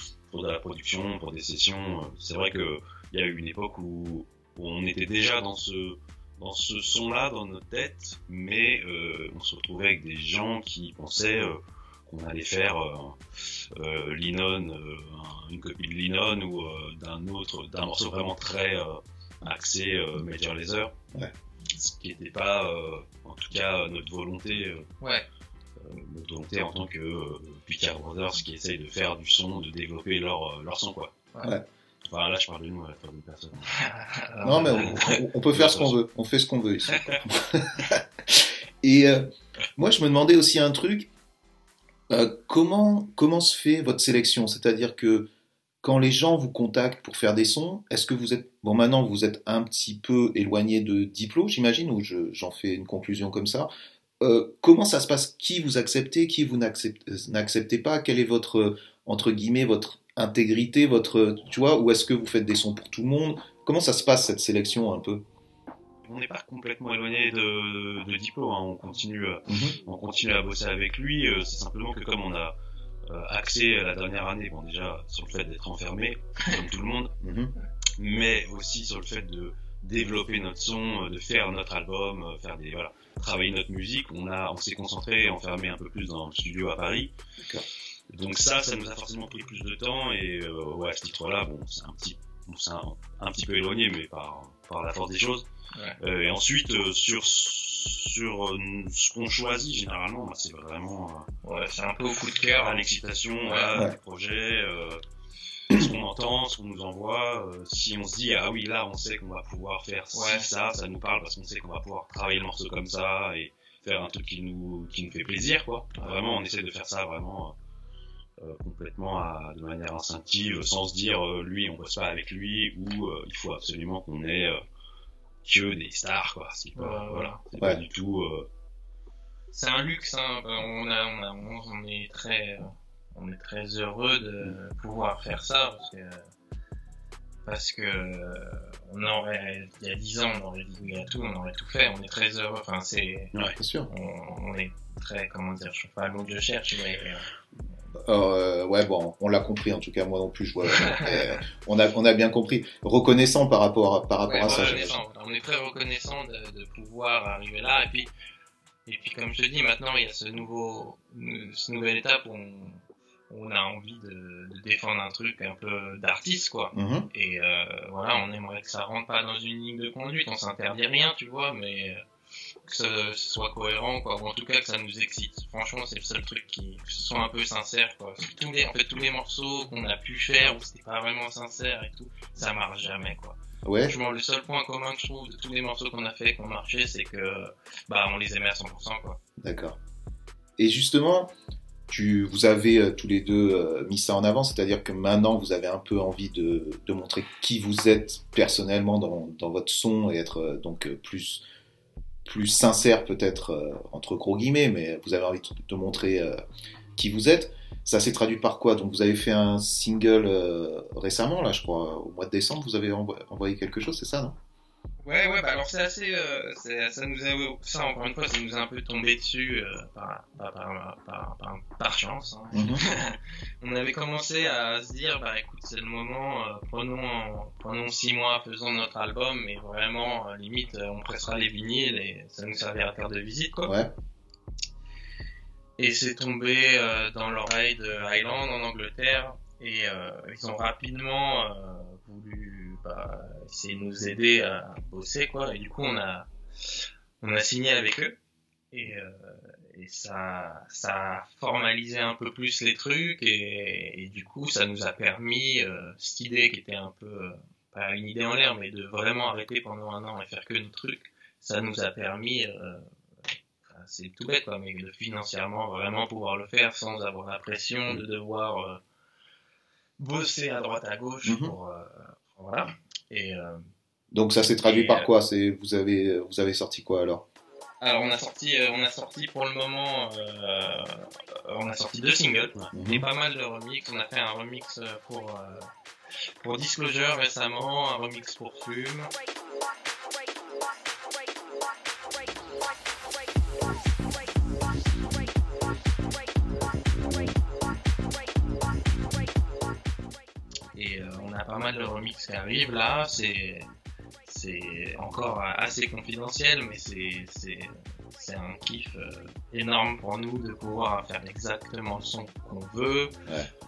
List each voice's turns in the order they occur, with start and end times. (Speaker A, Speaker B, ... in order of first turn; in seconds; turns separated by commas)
Speaker A: 0.3-20.9, Speaker A: 21.7-24.9, Speaker B: 25.0-25.3, Speaker A: 25.8-31.1, Speaker A: 32.1-33.7, Speaker B: 33.7-35.2, Speaker C: 34.4-41.1, Speaker A: 35.5-36.0, Speaker B: 36.9-37.2, Speaker C: 42.1-45.3, Speaker C: 45.8-53.7, Speaker C: 54.2-65.2, Speaker A: 66.0-72.5, Speaker C: 69.5-69.8, Speaker A: 73.1-77.1, Speaker C: 77.2-77.5, Speaker A: 78.0-87.1, Speaker C: 87.4-87.7, Speaker A: 88.1-95.5, Speaker A: 96.0-101.3, Speaker B: 101.4-103.7, Speaker A: 102.6-105.0, Speaker A: 105.7-117.6, Speaker B: 110.1-110.5, Speaker A: 118.4-124.6, Speaker A: 125.5-128.5, Speaker B: 126.8-127.4, Speaker B: 129.5-136.3, Speaker B: 137.5-143.3, Speaker C: 143.6-143.9, Speaker B: 143.9-147.3, Speaker C: 147.9-155.0, Speaker B: 150.7-151.4, Speaker B: 154.3-158.1, Speaker B: 158.9-172.0, Speaker C: 166.7-167.1, Speaker B: 172.7-189.2, Speaker C: 183.6-183.9, Speaker C: 189.4-189.8, Speaker C: 190.6-191.3, Speaker C: 191.9-201.4, Speaker C: 202.3-206.4, Speaker C: 207.0-214.4, Speaker B: 215.0-233.7, Speaker C: 222.5-222.8, Speaker C: 233.7-233.9, Speaker B: 235.8-246.3, Speaker B: 247.2-248.2, Speaker B: 248.7-268.8, Speaker B: 270.0-273.7, Speaker C: 271.2-271.6, Speaker C: 274.1-277.2, Speaker B: 274.6-275.1, Speaker B: 277.8-285.7, Speaker C: 282.7-283.1, Speaker B: 286.4-289.1, Speaker B: 300.7-303.7, Speaker B: 304.3-313.1